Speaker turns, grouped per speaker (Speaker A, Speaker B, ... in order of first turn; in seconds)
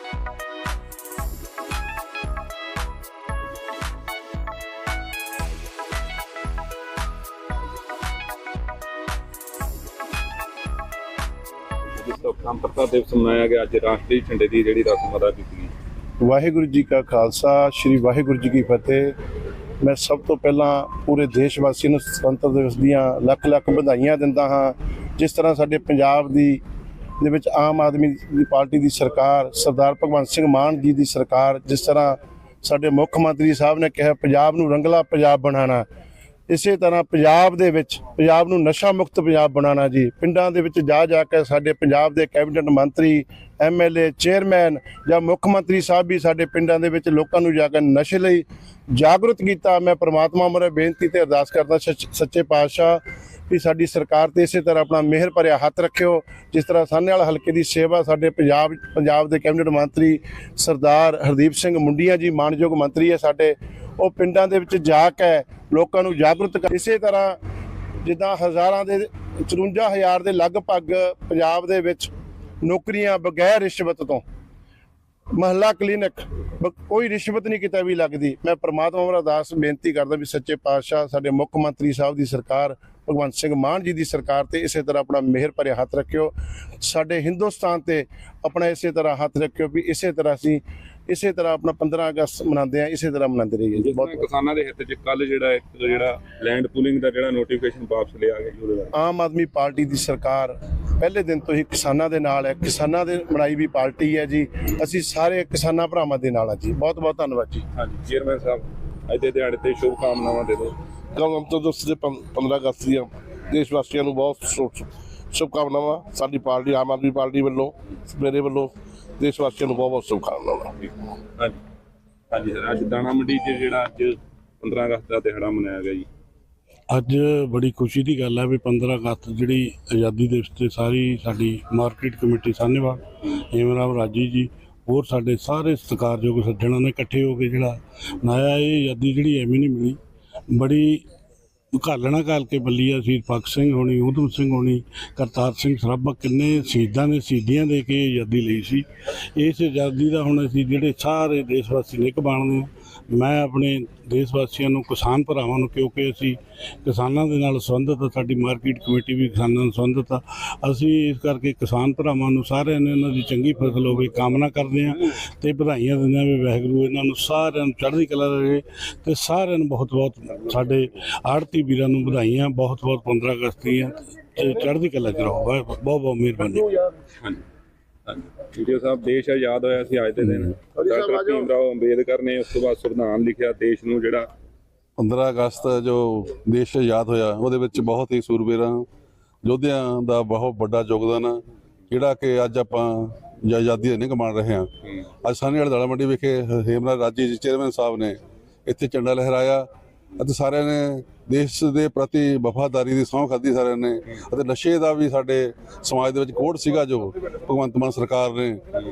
Speaker A: 11.9-15.7, 93.7-98.9, 107.8-110.8, 122.3-126.1, 178.1-184.3
Speaker B: 16.2-19.1, 19.8-26.6, 27.2-35.9, 36.5-67.4, 68.0-72.1, 72.6-74.2, 75.3-94.2, 99.0-107.6
Speaker C: 111.1-120.7
Speaker D: 126.9-133.0, 133.6-139.9, 140.5-141.0, 141.8-148.8, 149.4-152.6, 153.1-156.3, 156.8-176.6
Speaker E: 185.0-188.8, 189.4-194.7, 195.2-208.6